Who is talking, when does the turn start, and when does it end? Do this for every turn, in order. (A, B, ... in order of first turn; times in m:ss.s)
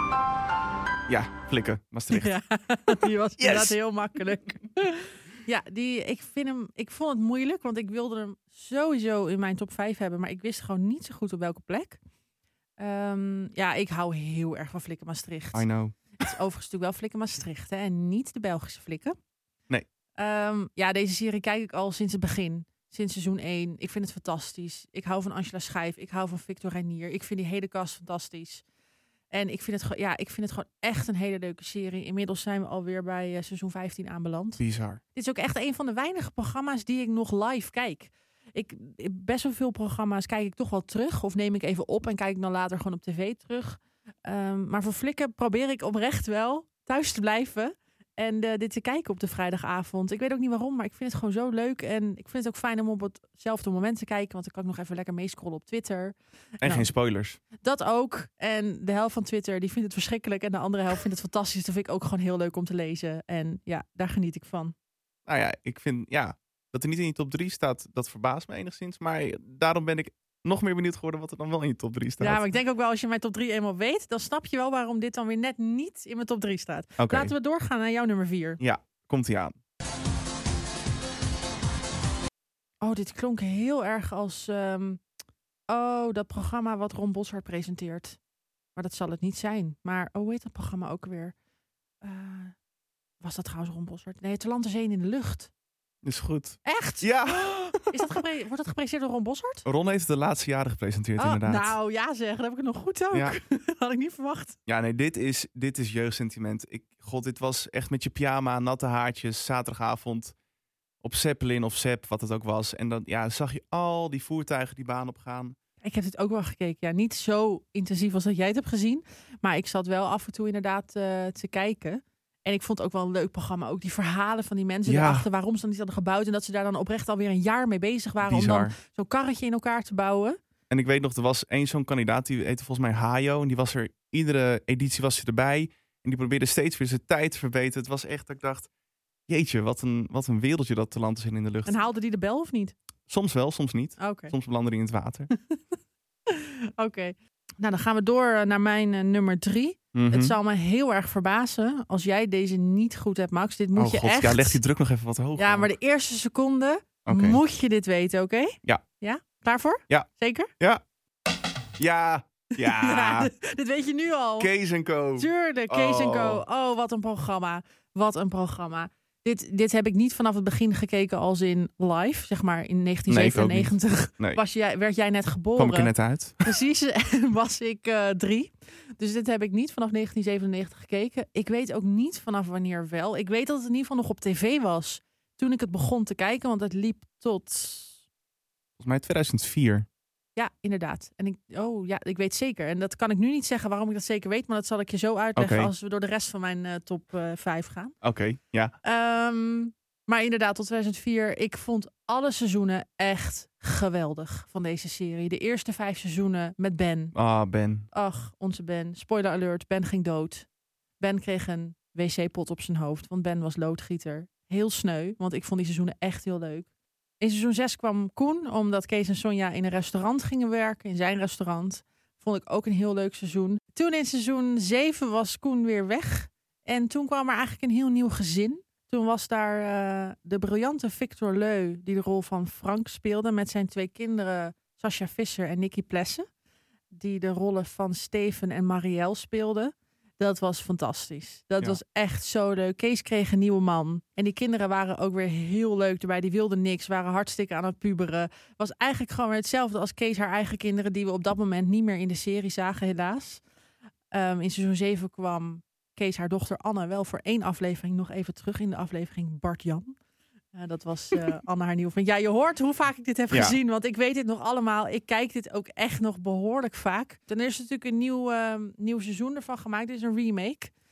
0:01.1-0:02.3 A
0:02.1-0:12.0 B
0:03.4-0:03.8 A
0:12.8-0:15.6 B
0:15.5-0:16.0 A
0:16.2-0:19.2 B
0:20.2-0:28.6 B
0:29.3-0:34.6 B
0:34.6-0:35.0 A
0:35.2-0:56.9 B
0:56.6-0:57.4 A
0:57.6-1:04.7 B
1:05.3-1:12.5 A
1:12.2-1:18.6 B
1:17.0-1:17.3 A
1:18.6-1:19.6 A
1:22.8-1:25.0 B
1:25.7-1:28.2 B
1:28.8-1:31.3 B
1:32.0-1:32.5 B
1:33.2-1:35.5 B
1:36.0-1:37.9 A
1:36.6-1:39.6 B
1:39.6-1:41.8 A
1:41.2-1:44.6 B
1:43.1-1:43.4 A
1:44.7-1:50.4 A
1:51.0-1:55.6 A
1:55.8-2:10.4 B
2:04.9-2:05.3 A
2:08.2-2:08.7 A
2:10.7-2:18.7 A
2:19.3-2:21.8 A
2:21.7-2:22.7 B
2:23.1-2:25.3 A
2:24.0-2:24.3 B
2:25.3-2:25.6 B
2:26.3-2:34.6 B
2:29.9-2:30.4 A
2:33.8-2:35.7 A
2:35.4-2:40.5 B
2:37.1-2:37.4 A
2:41.8-2:43.3 A
2:42.6-2:44.5 B
2:44.4-2:46.4 A
2:45.2-3:08.0 B
2:53.1-2:54.4 A
2:55.6-2:56.4 A
3:08.8-3:09.9 A
3:10.4-3:18.0 B
3:15.4-3:15.7 A
3:18.0-3:18.7 A
3:18.8-3:27.1 B
3:27.2-3:27.9 A
3:27.9-3:30.5 B
3:31.0-3:36.7 B
3:37.2-3:56.3 B
3:56.9-4:13.4 B
4:14.1-4:20.0 B
4:20.5-4:30.7 B
4:23.3-4:23.6 A